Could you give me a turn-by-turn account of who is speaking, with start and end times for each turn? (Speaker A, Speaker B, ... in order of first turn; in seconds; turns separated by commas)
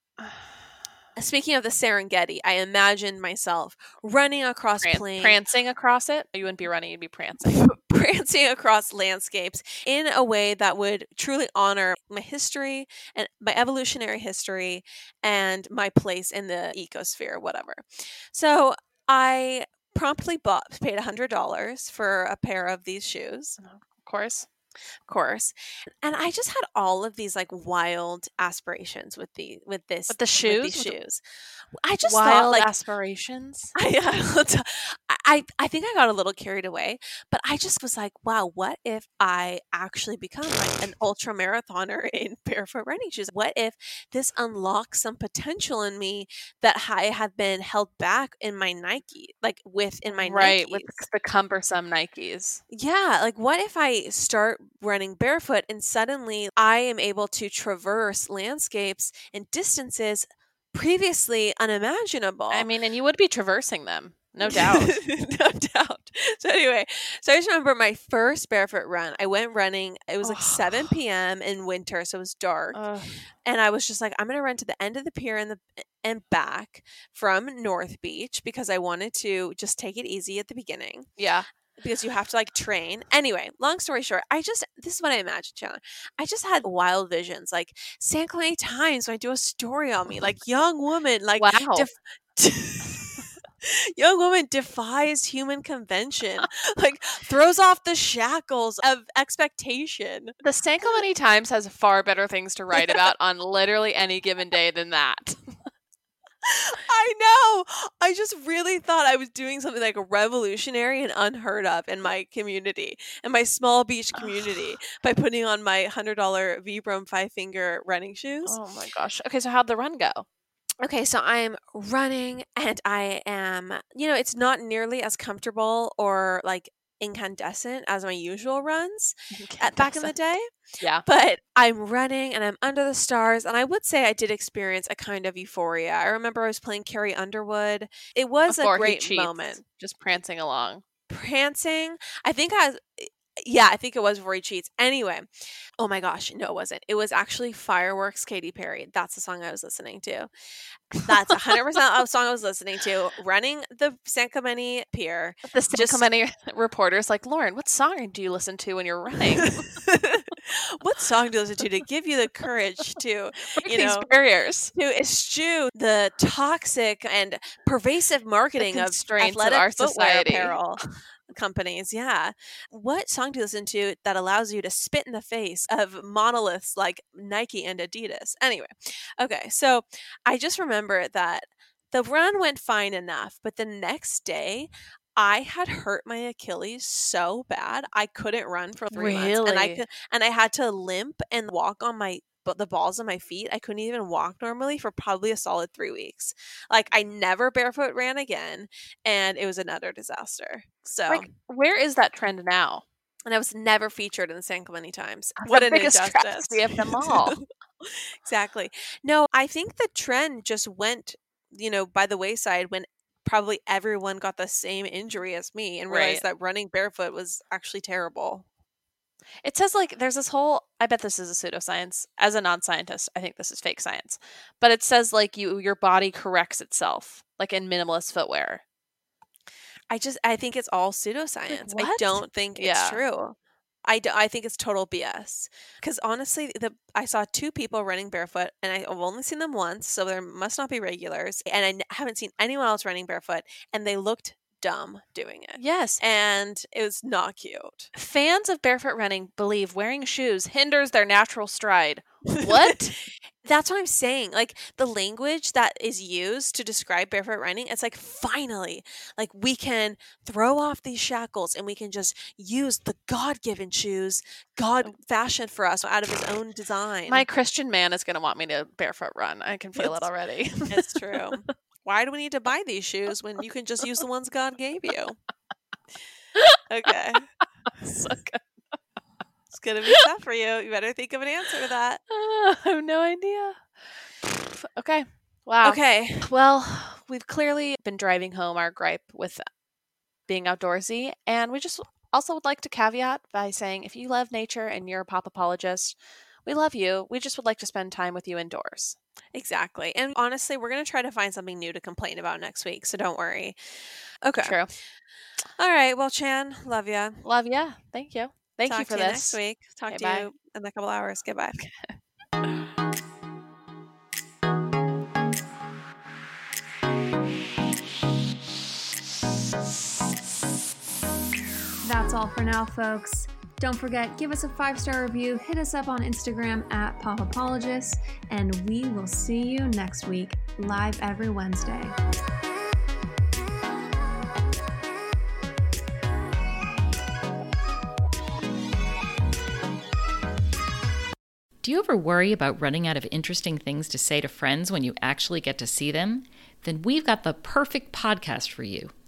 Speaker A: 1.1-5.4, Speaker B: 4.8-7.6, Speaker A: 7.5-23.6, Speaker B: 23.6-24.5, Speaker A: 25.1-31.2, Speaker B: 30.1-30.9, Speaker A: 31.8-32.7, Speaker B: 32.0-33.7, Speaker A: 33.7-51.0, Speaker B: 50.2-52.6, Speaker A: 52.7-62.7, Speaker B: 62.5-65.0, Speaker A: 64.4-72.8, Speaker B: 70.2-70.9, Speaker B: 72.7-73.1, Speaker A: 73.4-81.1, Speaker B: 81.2-81.5, Speaker A: 81.8-100.4, Speaker B: 91.4-91.9, Speaker B: 100.4-105.5, Speaker A: 106.4-118.5, Speaker B: 118.5-120.2, Speaker A: 120.8-130.5, Speaker B: 129.3-130.1, Speaker A: 131.0-139.6, Speaker B: 138.5-140.8, Speaker A: 141.1-145.2, Speaker A: 145.8-150.3, Speaker A: 150.9-156.1, Speaker B: 155.5-159.7, Speaker A: 159.4-164.1, Speaker B: 163.5-164.7, Speaker A: 164.7-201.3, Speaker B: 168.6-170.6, Speaker B: 188.9-189.8, Speaker B: 201.1-202.8, Speaker A: 203.3-218.4, Speaker B: 205.4-207.4, Speaker B: 215.9-216.2, Speaker B: 219.4-228.6, Speaker A: 229.9-247.9, Speaker B: 231.5-233.0, Speaker B: 245.6-246.0, Speaker B: 247.9-252.9, Speaker A: 252.3-267.2, Speaker B: 267.1-270.9, Speaker A: 269.8-270.1, Speaker A: 270.7-275.2, Speaker A: 276.7-277.3, Speaker B: 277.8-278.4, Speaker A: 279.5-282.0, Speaker B: 282.1-283.7, Speaker B: 284.3-289.4, Speaker A: 285.6-286.3, Speaker B: 290.3-299.0, Speaker A: 299.3-303.6, Speaker A: 304.2-304.6, Speaker B: 304.4-304.7, Speaker A: 305.6-307.2, Speaker B: 307.2-310.3, Speaker A: 308.7-311.6, Speaker B: 311.6-311.9, Speaker C: 321.8-331.9, Speaker D: 341.6-348.9